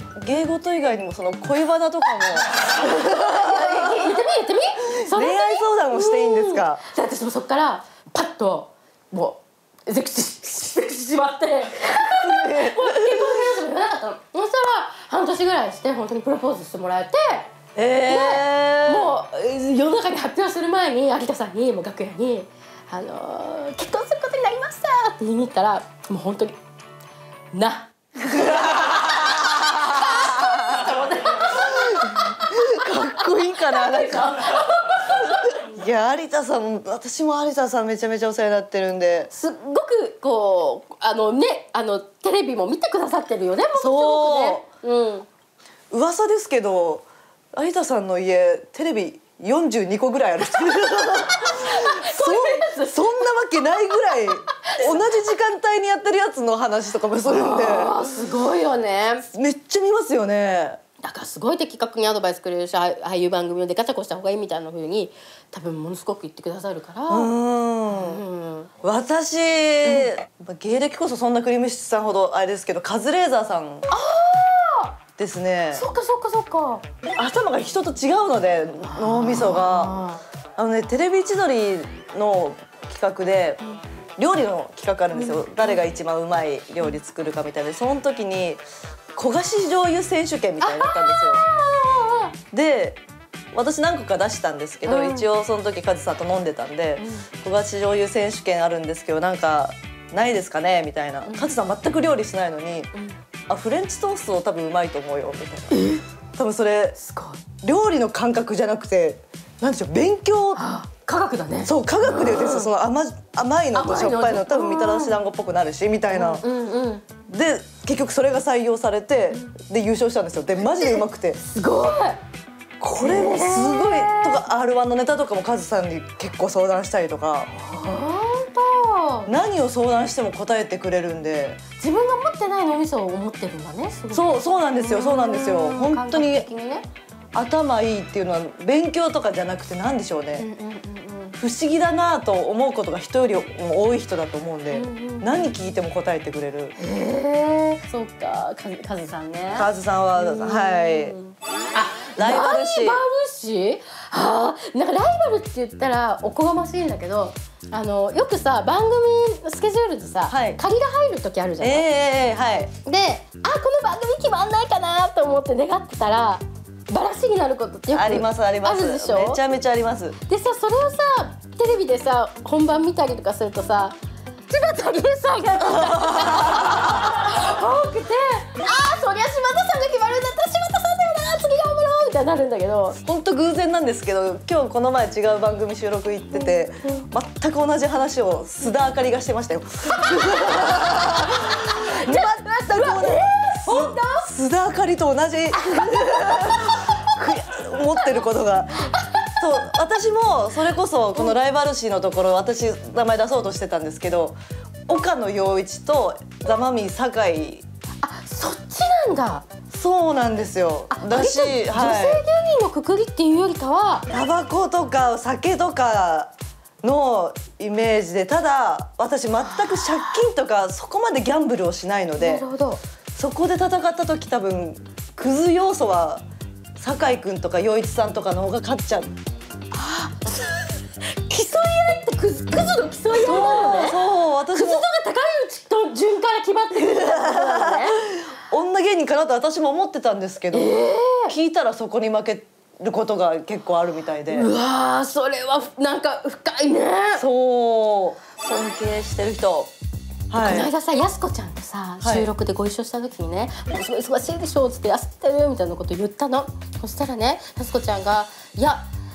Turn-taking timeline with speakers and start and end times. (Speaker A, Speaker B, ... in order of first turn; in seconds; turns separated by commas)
Speaker A: 0.2-4.1, Speaker B: 2.8-17.5, Speaker A: 4.9-6.8, Speaker A: 12.0-13.4, Speaker A: 17.8-19.1, Speaker B: 18.0-26.6, Speaker B: 27.5-35.6, Speaker A: 28.3-34.6, Speaker A: 35.6-39.3, Speaker B: 39.3-45.3, Speaker A: 43.8-44.6, Speaker A: 45.9-58.1, Speaker B: 51.3-53.3, Speaker B: 53.9-55.2, Speaker B: 57.2-59.2, Speaker A: 59.3-60.8, Speaker B: 61.0-67.3, Speaker A: 67.1-68.2, Speaker B: 67.9-68.7, Speaker A: 68.8-73.9, Speaker B: 73.9-75.0, Speaker A: 75.2-75.8, Speaker B: 75.7-76.8, Speaker A: 77.2-80.0, Speaker B: 78.8-80.2, Speaker A: 80.6-83.6, Speaker A: 84.2-88.6, Speaker B: 85.1-85.5, Speaker A: 89.2-91.4, Speaker B: 90.6-92.3, Speaker A: 92.5-93.0, Speaker A: 93.5-102.9, Speaker B: 94.8-95.3, Speaker B: 97.0-97.3, Speaker B: 101.2-101.5, Speaker A: 103.5-107.0, Speaker B: 105.7-106.0, Speaker B: 107.0-107.4, Speaker A: 107.6-110.6, Speaker B: 110.5-112.7, Speaker A: 111.7-116.4, Speaker B: 113.7-115.2, Speaker B: 116.1-117.0, Speaker A: 117.3-121.4, Speaker B: 120.8-122.2, Speaker A: 122.8-127.5, Speaker B: 123.0-124.4, Speaker B: 127.6-129.3, Speaker A: 129.2-131.6, Speaker B: 131.8-136.8, Speaker A: 134.1-136.5, Speaker A: 137.3-140.5, Speaker B: 140.4-141.4, Speaker A: 141.4-146.7, Speaker B: 144.7-145.3, Speaker B: 146.8-161.8, Speaker A: 149.5-151.2, Speaker A: 152.2-153.0, Speaker A: 160.3-160.6, Speaker A: 161.6-162.7, Speaker B: 162.7-169.4, Speaker A: 167.9-170.2, Speaker B: 170.2-173.9, Speaker B: 174.5-183.0, Speaker A: 175.7-177.0, Speaker A: 183.0-204.4, Speaker B: 186.3-187.0, Speaker B: 189.9-194.3, Speaker B: 195.5-198.2, Speaker B: 198.8-199.2, Speaker A: 204.9-207.6, Speaker B: 208.0-209.4, Speaker A: 209.7-212.2, Speaker B: 210.9-214.1, Speaker A: 214.1-222.5, Speaker B: 219.5-220.2, Speaker B: 222.2-222.8, Speaker A: 223.2-226.2, Speaker A: 226.8-229.1, Speaker B: 229.7-234.0, Speaker A: 233.1-234.9, Speaker B: 234.5-238.0, Speaker A: 236.7-240.8, Speaker B: 240.5-241.3, Speaker A: 241.3-244.5, Speaker B: 244.3-247.2, Speaker A: 247.2-249.7, Speaker A: 250.3-250.7, Speaker B: 250.3-258.9, Speaker A: 252.0-252.3